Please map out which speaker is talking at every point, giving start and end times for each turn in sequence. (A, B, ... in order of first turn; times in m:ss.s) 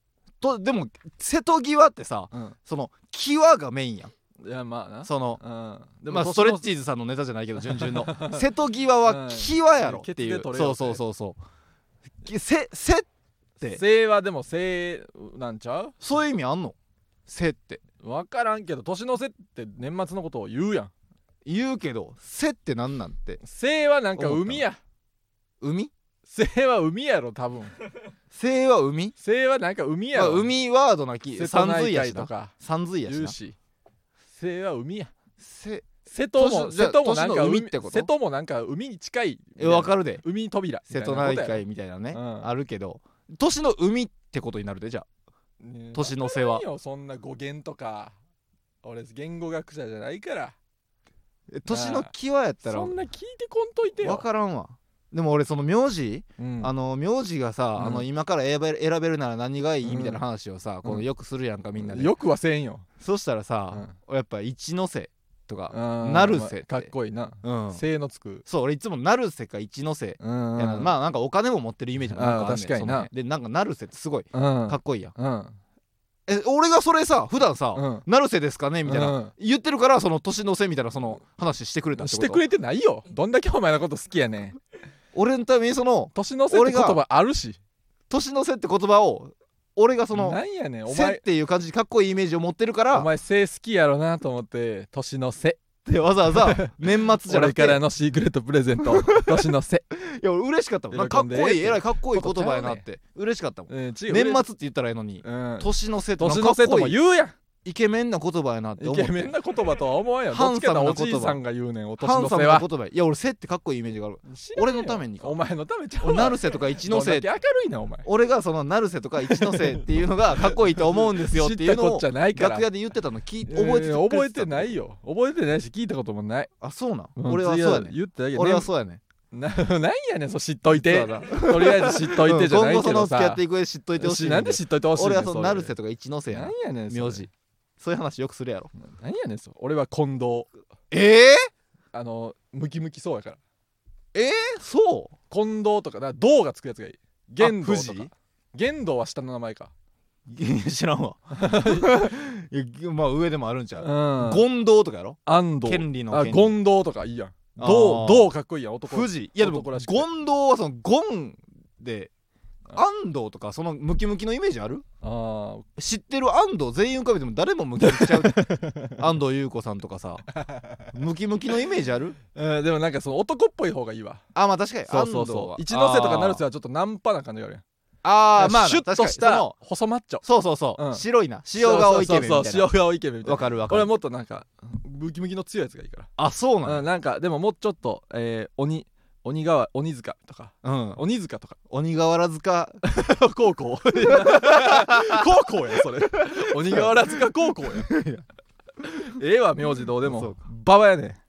0:00.4-0:04.1 A
0:04.4-0:06.6 B
0:05.0-0:05.4 A
0:06.1-0:11.4 A
0:07.6-0:08.5 B
0:09.0-0:11.0 B
0:12.2-0:13.1 A
0:13.7-0:16.0 B
0:16.0-0:16.7 A
0:17.3-0:17.8 A
0:18.0-0:20.9 B
0:21.4-0:23.4 A
0:23.4-0:24.8 B
0:24.2-0:24.6 A
0:25.6-0:25.9 A
0:26.3-0:27.7 B
0:28.3-0:29.1 A
0:29.2-0:30.5 B
0:30.1-0:33.4 A
0:31.3-0:32.5 B
0:33.0-0:33.6 B
0:34.3-0:35.1 B
0:35.4-0:38.1 A
0:36.0-0:42.5 B
0:39.6-0:40.2 A
0:40.9-0:45.0 A
0:45.6-0:48.1 B
0:45.9-0:46.6 A
0:48.8-0:50.5 B
0:51.5-0:52.9 A
0:51.7-0:52.1 B
0:52.6-0:54.2 B
0:54.0-1:02.1 A
0:56.4-0:56.7 B
0:57.8-0:58.0 B
0:59.8-1:00.2 B
1:01.8-1:02.8 B
1:03.0-1:06.9 A
1:05.7-1:08.4 B
1:07.4-1:07.8 A
1:08.4-1:15.1 A
1:10.2-1:10.9 B
1:12.1-1:13.1 B
1:14.3-1:15.6 B
1:16.3-1:22.4 A
1:17.7-1:18.0 B
1:18.8-1:19.3 B
1:22.0-1:24.6 B
1:25.1-1:27.0 A
1:26.1-1:27.6 B
1:28.1-1:33.1 A
1:30.1-1:31.2 B
1:32.9-1:35.6 B
1:35.8-1:37.8 A
1:36.2-1:39.8 B
1:38.8-1:47.0 A
1:40.9-1:42.8 B
1:43.7-1:44.4 B
1:45.2-1:47.4 B
1:47.6-1:49.3 A
1:48.8-1:52.7 B
1:50.3-1:51.4 A
1:52.0-1:55.4 A
1:54.3-1:58.0 B
1:56.0-1:57.3 A
1:58.0-2:04.7 A
1:59.2-2:02.7 B
2:03.4-2:06.5 B
2:06.6-2:09.0 A
2:07.2-2:08.7 B
2:09.3-2:13.4 B
2:10.7-2:18.7 A
2:14.0-2:15.7 B
2:16.3-2:17.3 B
2:18.8-2:20.5 B
2:20.9-2:21.5 A
2:21.9-2:23.4 B
2:24.1-2:25.1 A
2:25.3-2:29.7 B
2:27.4-2:28.1 A
2:30.3-2:36.6 A
2:31.4-2:32.1 B
2:33.8-2:34.4 B
2:35.2-2:40.1 B
2:37.6-2:38.3 A
2:38.9-2:42.1 A
2:42.7-2:44.8 A
2:45.0-2:45.6 B
2:45.8-2:50.3 A
2:47.8-2:49.0 B
2:50.4-2:50.9 B
2:50.9-2:52.2 A
2:52.3-2:54.2 B
2:54.3-2:56.4 A
2:54.9-2:57.6 B
2:58.0-2:59.5 A
2:58.4-3:00.2 B
3:00.2-3:02.7 A
3:00.8-3:06.1 B
3:03.2-3:03.9 A
3:06.2-3:06.8 A
3:06.6-3:11.6 B
3:10.6-3:11.0 A
3:11.7-3:12.8 A
3:12.8-3:17.9 B
3:14.1-3:15.2 A
3:16.1-3:18.2 A
3:19.0-3:21.2 B
3:20.0-3:20.4 A